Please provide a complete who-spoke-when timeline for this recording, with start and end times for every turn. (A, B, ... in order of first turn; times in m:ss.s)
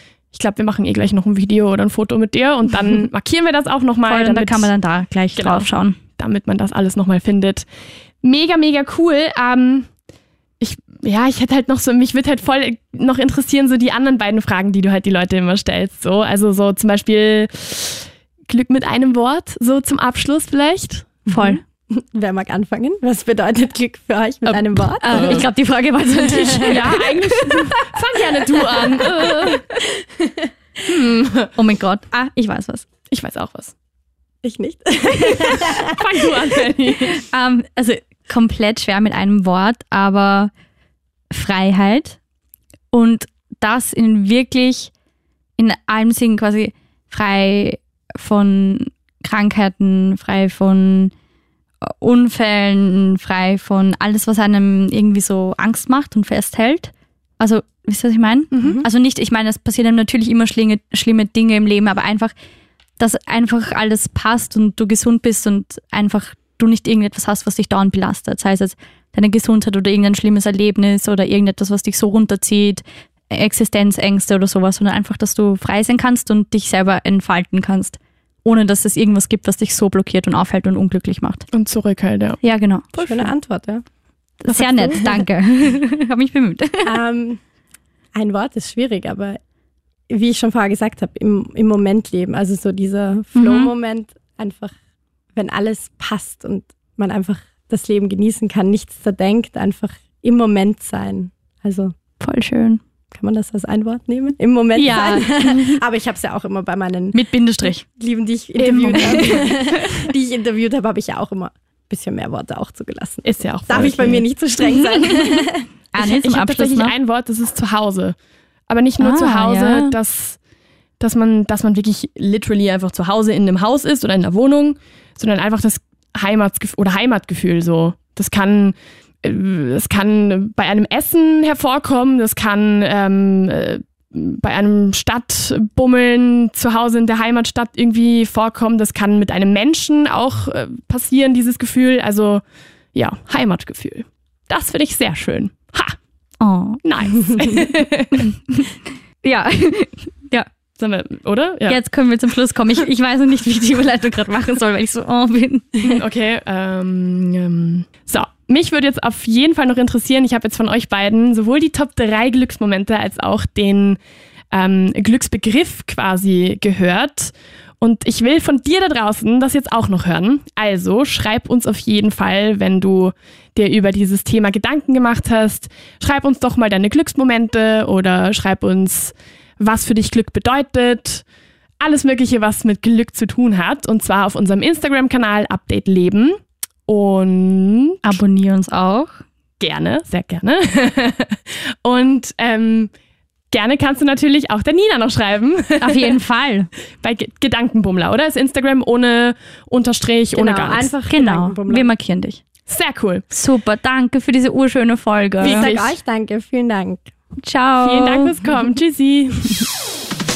0:00.3-0:04.7 A
0:04.0-0:06.0 B
0:05.4-0:07.6 A
0:08.2-0:09.9 A
0:10.6-0:21.4 A
0:21.3-0:25.4 C
0:21.3-0:21.6 B
0:24.4-0:25.4 A
0:25.0-0:27.1 B
0:26.3-0:29.6 A
0:26.4-0:26.9 C
0:30.2-0:30.5 C
0:30.8-0:31.5 A
0:31.5-0:32.9 B
0:33.1-0:33.7 A
0:34.4-0:36.0 C
0:35.7-0:37.2 A
0:37.1-0:40.5 B
0:41.3-0:42.2 B
0:42.9-0:44.9 B
0:45.6-0:51.1 B
0:51.8-1:02.3 B
0:58.5-0:58.8 A
0:58.6-0:58.8 C
1:03.0-1:21.5 B
1:21.5-1:22.4 A
1:22.4-1:23.0 B
1:23.0-1:23.8 C
1:23.0-1:23.3 A
1:24.4-1:27.0 B
1:24.5-1:25.0 A
1:24.6-1:25.2 C
1:26.8-1:27.4 C
1:28.1-1:29.4 C
1:30.1-1:34.7 C
1:33.3-1:33.7 B
1:35.3-1:41.9 C
1:42.2-1:42.8 B
1:43.1-1:47.2 C
1:44.7-1:45.8 B
1:47.1-1:47.8 B
1:47.8-1:55.6 C
1:48.6-1:49.7 B
1:48.9-1:49.4 A
1:53.2-1:54.2 A
1:55.9-1:56.9 B
1:56.0-1:58.2 A
1:58.7-2:00.4 A
1:59.0-1:59.9 B
2:01.0-2:22.4 A
2:22.9-2:26.0 A
2:26.4-2:26.8 B
2:26.8-2:28.3 A
2:28.3-2:30.5 B
2:30.8-2:31.8 A
2:31.7-2:35.9 B
2:35.8-2:44.0 A
2:44.5-3:01.2 A
3:01.8-3:08.2 A
3:08.0-3:09.2 B
3:09.6-3:12.9 A
3:13.5-3:16.2 A
3:15.8-3:16.7 B
3:17.0-3:20.9 A
3:20.3-3:21.9 C
3:21.1-3:22.4 B
3:22.7-3:23.2 A
3:23.3-3:25.7 B
3:25.4-3:27.0 C
3:25.4-3:25.9 A
3:27.4-3:28.3 B
3:27.8-3:29.6 A